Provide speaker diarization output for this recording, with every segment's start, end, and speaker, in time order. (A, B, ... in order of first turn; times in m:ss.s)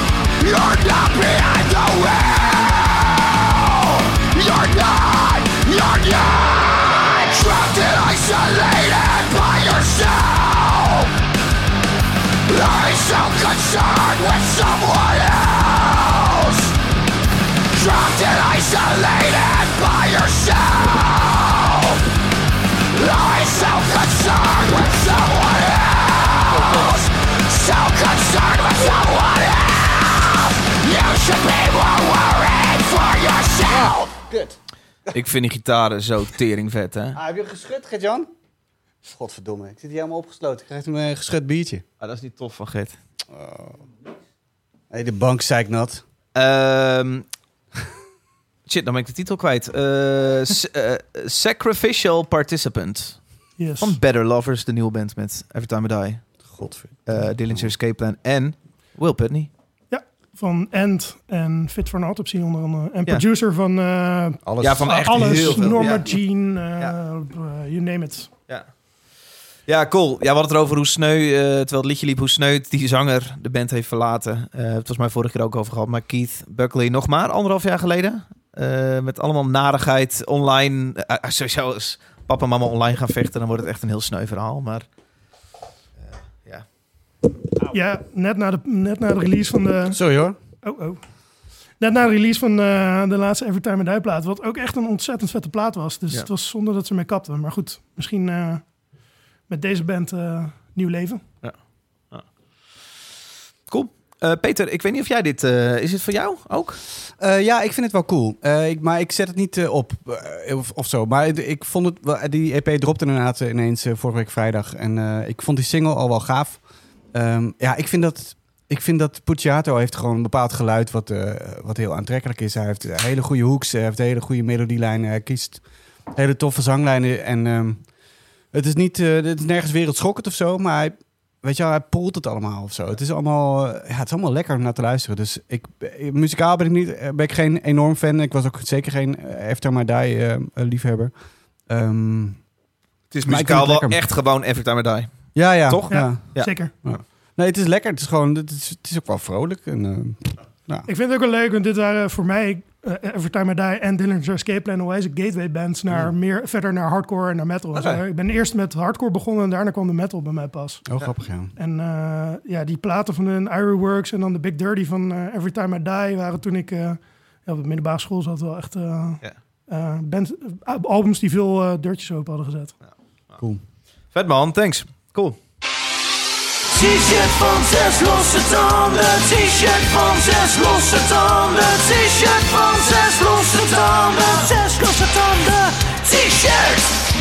0:00.4-0:11.1 A
0:12.5-0:16.7 A
0:17.7-0:22.0 A
0:22.9-0:34.1 A
0:26.5-0:26.9 B
0:33.7-0:34.6 B
0:35.1-0:37.2 C
0:37.1-0:38.3 B
0:39.0-0:41.8 B
0:42.0-0:43.0 C
0:43.3-0:43.9 B
0:44.9-0:46.0 B
0:46.4-0:47.2 C
0:48.7-0:53.2 C
0:53.6-0:54.0 D
0:53.8-0:56.3 C
0:56.5-0:57.7 B
0:57.0-0:59.5 C
0:59.9-1:08.3 D
1:04.4-1:05.8 B
1:04.6-1:06.1 C
1:09.7-1:24.8 C
1:27.7-1:30.0 D
1:29.9-1:30.4 B
1:30.6-1:31.0 D
1:31.8-1:38.7 D
1:39.5-1:41.2 D
1:43.7-1:46.8 C
1:47.2-1:56.6 B
1:57.1-2:07.8 B
2:08.5-2:21.1 B
2:21.7-2:22.4 B
2:23.1-2:26.5 C
2:23.2-2:24.0 B
2:25.3-2:30.9 B
2:25.9-2:26.7 D
2:30.9-2:40.8 D
2:40.9-2:41.5 B
2:41.6-2:52.8 D
2:54.1-2:55.4 C
2:56.7-3:07.1 E